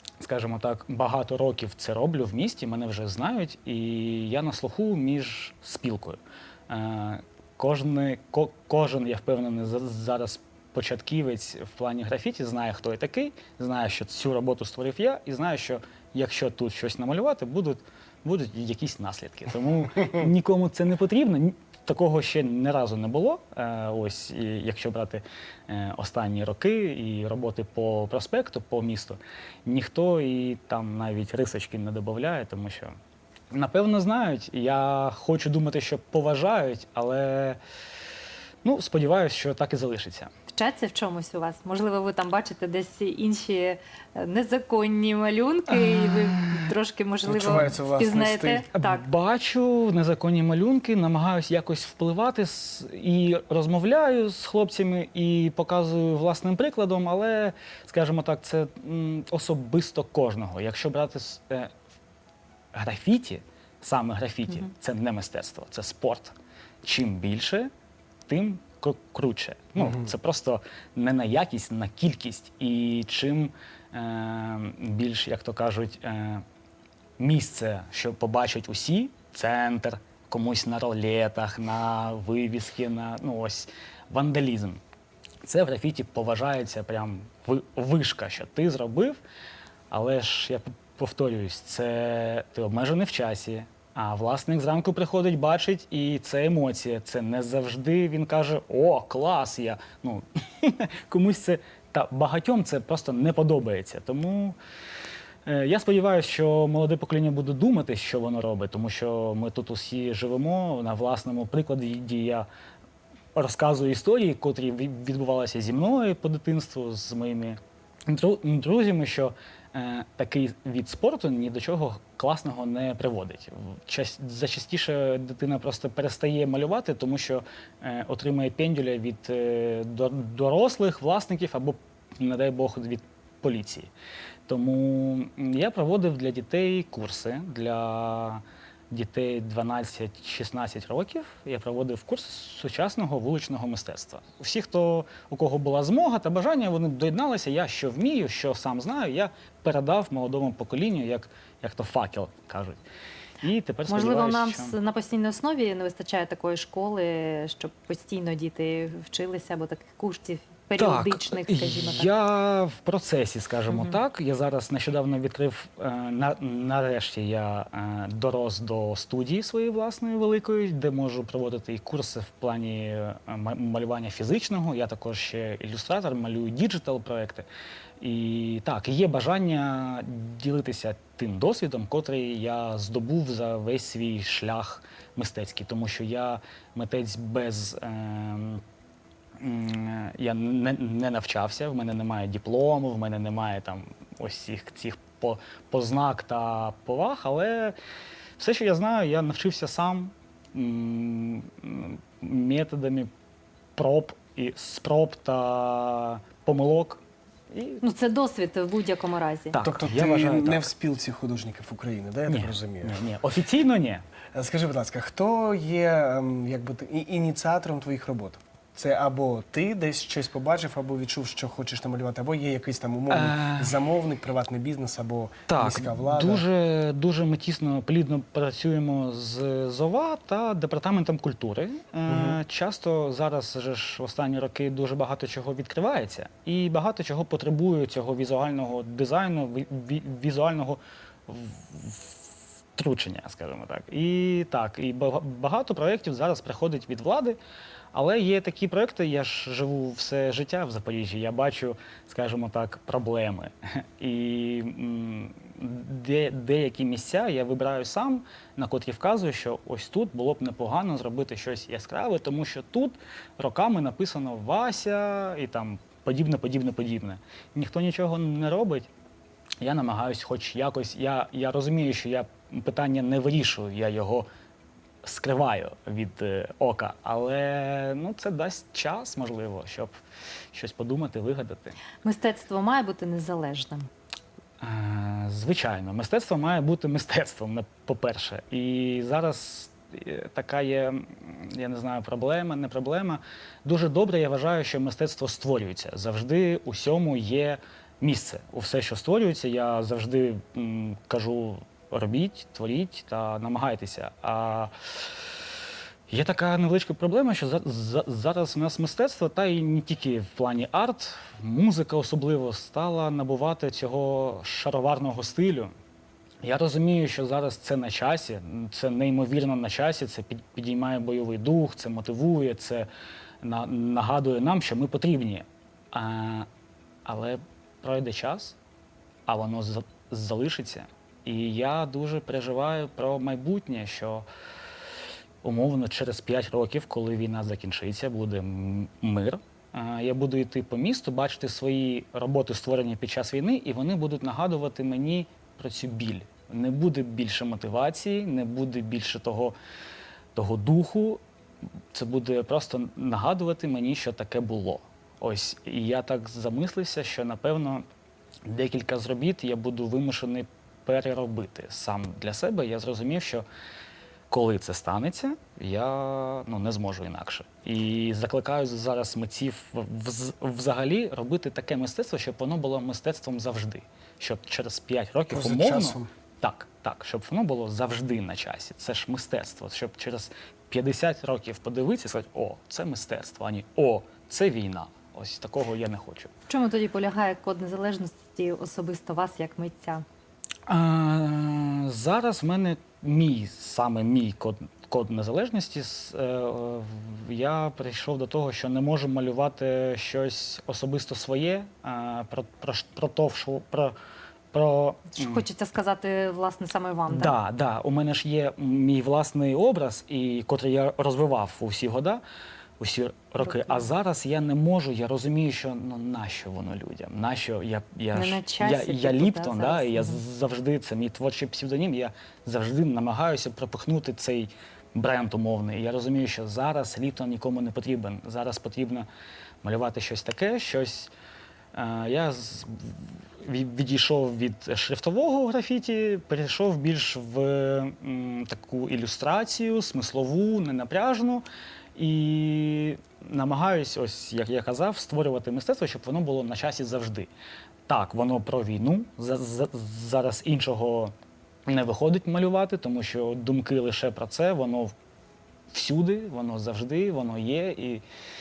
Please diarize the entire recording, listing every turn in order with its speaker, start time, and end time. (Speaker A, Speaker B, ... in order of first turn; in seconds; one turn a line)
Speaker A: 0.2-32.9
Speaker A: 33.5-37.6
Speaker A: 38.6-40.3
Speaker B: 40.5-49.0
Speaker A: 45.7-46.7
Speaker C: 47.2-48.6
Speaker A: 48.7-61.7
Speaker A: 62.7-67.7
Speaker A: 68.3-76.4
Speaker A: 77.2-84.8
Speaker A: 85.4-89.2
Speaker A: 89.9-104.6
Speaker A: 105.5-112.5
Speaker A: 113.3-133.9
Speaker A: 134.5-152.8
Speaker A: 153.4-154.8
Speaker B: 153.9-162.1
Speaker A: 160.8-177.5
Speaker B: 163.7-163.9
Speaker A: 178.0-188.6
Speaker A: 189.4-197.7
Speaker A: 198.4-203.1
Speaker A: 203.8-207.8
Speaker B: 207.8-209.6
Speaker A: 209.5-210.7
Speaker C: 209.6-213.0
Speaker A: 212.3-214.0
Speaker C: 214.3-226.4
Speaker A: 223.1-223.8
Speaker A: 225.5-247.4
Speaker C: 232.1-232.4
Speaker A: 247.9-268.9
Speaker A: 269.6-274.2
Speaker A: 275.0-279.9
Speaker A: 280.5-281.8
Speaker B: 282.0-283.9
Speaker A: 284.6-304.7
Speaker A: 306.1-315.7
Speaker A: 316.4-322.9
Speaker A: 323.4-326.5
Speaker A: 327.1-328.6
Speaker A: 329.3-334.2
Speaker A: 335.4-349.5
Speaker A: 350.3-351.2
Speaker A: 351.9-357.8
Speaker A: 358.4-363.4
Speaker A: 364.3-386.3
Speaker C: 375.3-376.1
Speaker B: 386.5-390.0
Speaker A: 390.7-403.9
Speaker A: 404.5-405.4
Speaker B: 405.1-407.4
Speaker A: 407.1-412.2
Speaker A: 412.8-429.1
Speaker B: 413.4-413.8
Speaker B: 418.1-420.2
Speaker A: 429.6-431.1
Speaker A: 431.7-441.4
Speaker A: 441.9-447.3
Speaker A: 447.9-451.1
Speaker A: 451.7-454.9
Speaker A: 455.7-458.0